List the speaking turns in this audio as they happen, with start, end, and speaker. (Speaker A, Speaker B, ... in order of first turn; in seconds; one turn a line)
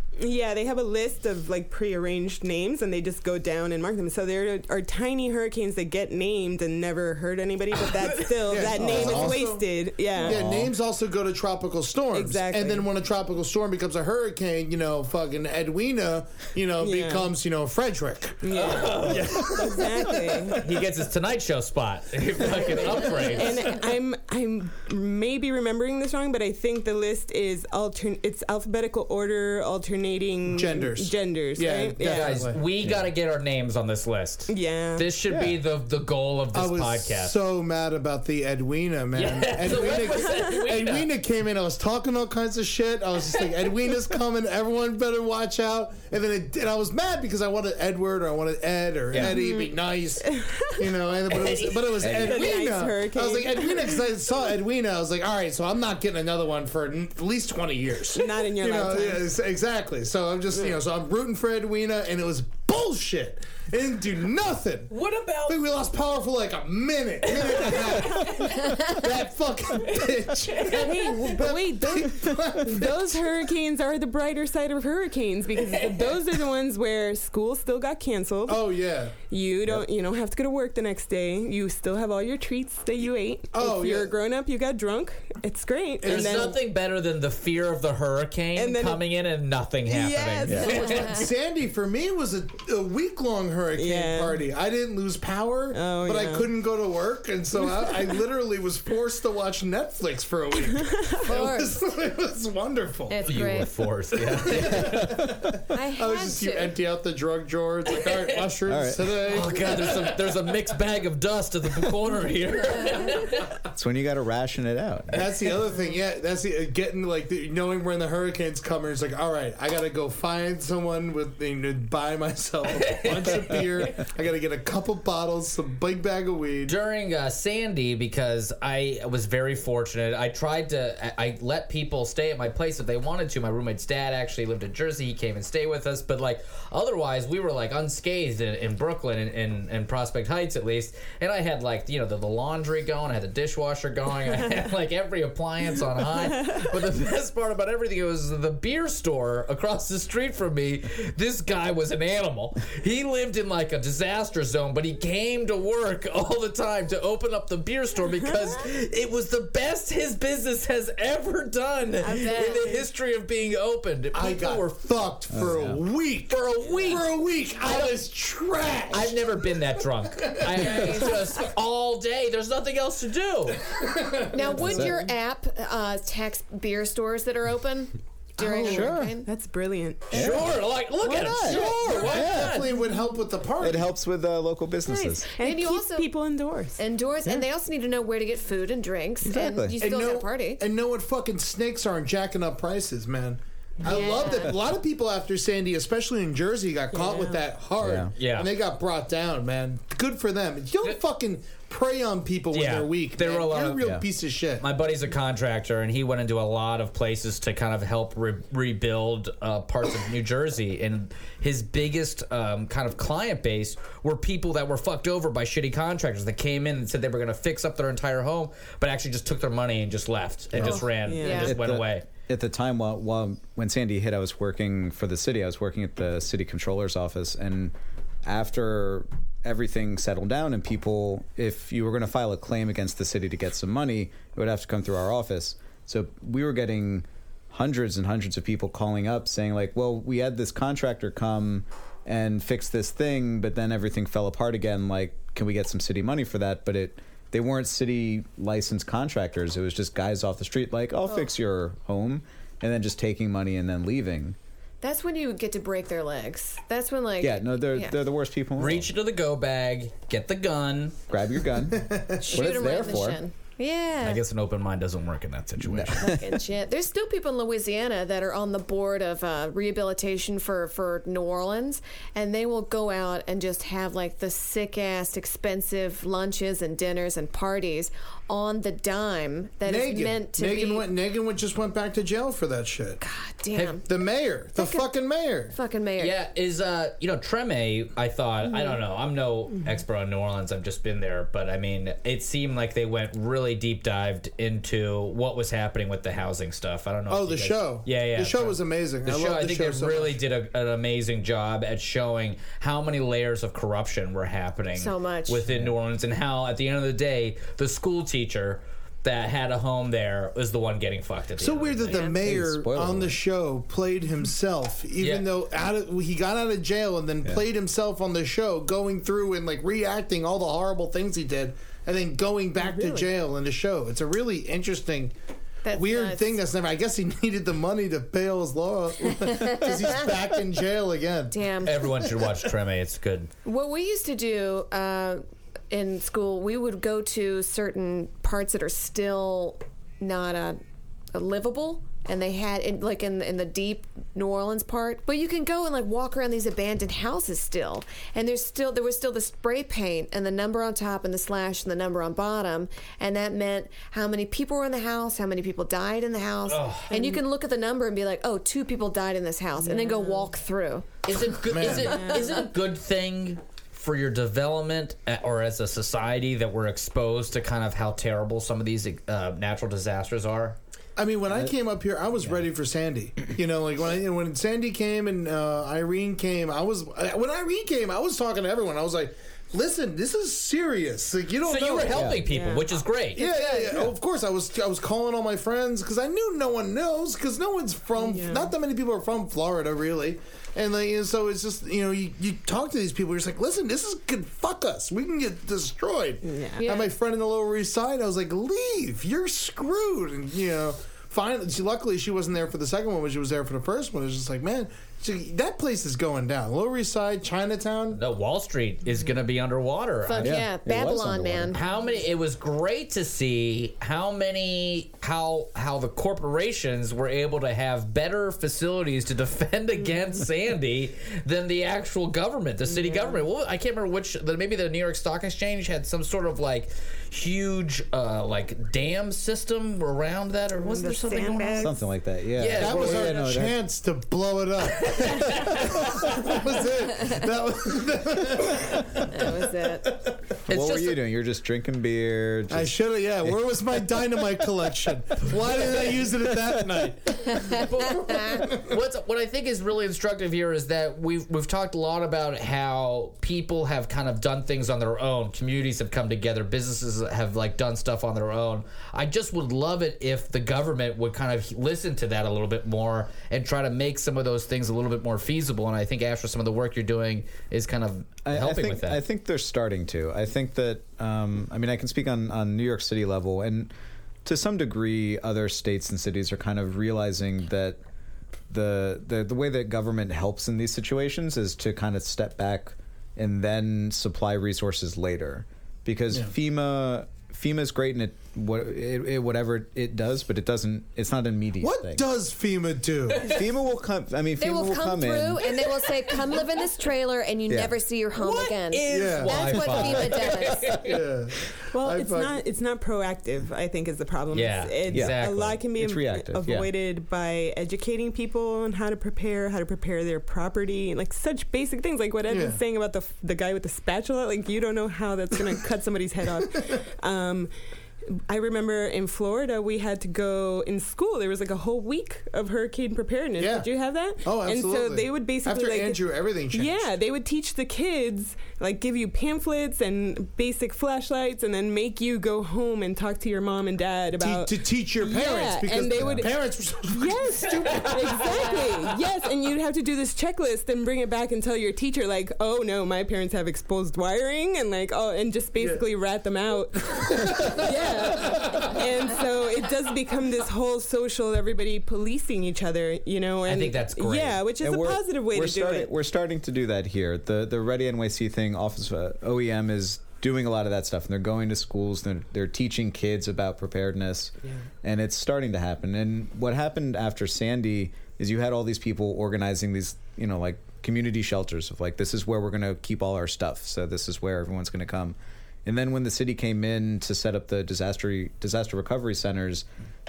Speaker A: 0.2-10.4
Speaker B: 8.4-18.5
Speaker C: 8.8-9.4
Speaker C: 10.2-10.7
Speaker A: 12.1-12.9
Speaker A: 16.8-17.3
Speaker A: 18.4-20.6
Speaker D: 18.5-19.8
Speaker B: 19.0-19.8
Speaker D: 20.6-23.6
Speaker A: 23.2-32.4
Speaker B: 30.5-32.6
Speaker D: 32.0-37.4
Speaker C: 32.8-33.1
Speaker A: 34.5-35.0
Speaker C: 35.3-35.6
Speaker B: 36.5-64.9
Speaker D: 39.1-41.1
Speaker A: 49.2-49.7
Speaker A: 50.3-50.8
Speaker D: 51.4-52.2
Speaker C: 52.0-52.4
Speaker A: 52.2-54.0
Speaker A: 58.1-59.3
Speaker D: 64.9-65.6
Speaker B: 65.5-73.2
Speaker D: 67.3-68.7
Speaker D: 69.8-71.2
Speaker A: 70.8-78.7
Speaker B: 78.5-79.2
Speaker A: 79.3-86.6
Speaker B: 83.5-84.1
Speaker B: 86.0-86.6
Speaker D: 86.1-91.2
Speaker A: 88.5-89.0
Speaker A: 89.9-91.0
Speaker E: 90.6-91.3
Speaker B: 90.7-103.3
Speaker A: 93.8-94.4
Speaker A: 95.7-96.5
Speaker A: 100.8-101.2
Speaker E: 101.3-101.8
Speaker E: 103.1-103.7
Speaker D: 103.3-105.3
Speaker B: 104.1-110.2
Speaker C: 104.6-105.5
Speaker E: 105.7-106.8
Speaker D: 107.9-108.3
Speaker C: 108.7-109.2
Speaker D: 109.2-113.5
Speaker C: 113.7-115.2
Speaker B: 115.1-126.8
Speaker D: 122.7-123.7
Speaker D: 126.7-164.9
Speaker A: 146.3-146.7
Speaker E: 162.0-162.8
Speaker B: 164.1-169.3
Speaker C: 165.3-165.8
Speaker D: 166.3-167.9
Speaker D: 168.9-173.7
Speaker B: 170.2-171.1
Speaker B: 173.7-174.7
Speaker E: 174.3-179.3
Speaker C: 174.6-175.0
Speaker A: 178.4-180.3
Speaker C: 178.6-179.2
Speaker C: 180.1-182.6
Speaker D: 180.1-182.7
Speaker B: 181.4-183.9
Speaker C: 183.6-185.3
Speaker A: 184.9-186.8
Speaker E: 185.4-186.1
Speaker E: 186.8-190.6
Speaker C: 189.3-189.8
Speaker B: 189.8-204.7
Speaker E: 193.9-194.6
Speaker A: 196.9-197.4
Speaker C: 197.8-198.1
Speaker D: 198.2-198.5
Speaker D: 202.5-203.9
Speaker D: 204.6-222.1
Speaker E: 220.6-221.6
Speaker A: 221.0-221.5
Speaker C: 221.4-254.4
Speaker E: 254.8-258.0
Speaker C: 257.2-258.9
Speaker D: 258.6-261.0
Speaker C: 261.1-263.2
Speaker B: 261.7-262.5
Speaker E: 262.2-264.2
Speaker D: 264.0-266.1
Speaker C: 265.6-266.4
Speaker E: 266.0-280.9
Speaker B: 279.6-283.0
Speaker E: 283.0-283.9
Speaker B: 283.8-285.6
Speaker E: 284.6-284.9
Speaker E: 285.5-286.1
Speaker D: 286.0-312.0
Speaker B: 297.1-300.2
Speaker E: 304.8-305.4
Speaker B: 311.4-325.1
Speaker E: 311.9-312.2
Speaker C: 312.2-313.2
Speaker D: 315.0-315.3
Speaker A: 322.7-323.1
Speaker E: 325.6-326.4
Speaker B: 325.7-331.4
Speaker E: 329.2-329.9
Speaker E: 331.3-332.1
Speaker D: 331.6-333.3
Speaker E: 333.4-340.6
Speaker E: 341.1-361.0
Speaker D: 356.5-356.9
Speaker A: 359.6-360.3
Speaker D: 361.1-370.6
Speaker B: 361.5-362.0
Speaker E: 361.6-362.5
Speaker A: 361.9-362.3
Speaker B: 371.0-382.1
Speaker D: 381.5-383.2
Speaker C: 381.9-382.2
Speaker A: 382.3-382.7
Speaker B: 383.2-408.0
Speaker A: 383.2-383.5
Speaker E: 383.2-383.9
Speaker A: 388.0-388.5
Speaker A: 396.2-396.6
Speaker E: 396.6-396.9
Speaker D: 407.9-410.4
Speaker E: 410.1-411.6
Speaker C: 410.2-411.6
Speaker D: 411.5-431.7
Speaker A: 422.7-423.2
Speaker A: 430.6-431.8
Speaker C: 431.6-433.6
Speaker D: 432.4-433.2
Speaker B: 432.6-440.2
Speaker D: 434.8-436.2
Speaker E: 439.1-439.9
Speaker D: 440.5-441.0
Speaker C: 440.5-442.7
Speaker B: 442.5-447.4
Speaker D: 447.5-469.0
Speaker E: 448.0-448.5
Speaker C: 468.2-473.7
Speaker C: 474.2-477.8
Speaker C: 478.5-492.0
Speaker B: 491.6-493.3
Speaker C: 493.2-495.5
Speaker E: 494.4-501.0
Speaker C: 497.5-497.8
Speaker D: 498.2-501.0
Speaker B: 498.9-500.0
Speaker B: 500.7-502.4
Speaker A: 501.7-517.5
Speaker D: 504.3-505.6
Speaker C: 504.9-506.7
Speaker B: 512.3-512.6
Speaker B: 516.5-516.8
Speaker A: 518.1-555.9
Speaker B: 523.4-523.7
Speaker B: 524.2-526.9
Speaker B: 534.2-538.2
Speaker B: 547.0-548.8
Speaker D: 553.5-554.5
Speaker C: 554.6-579.7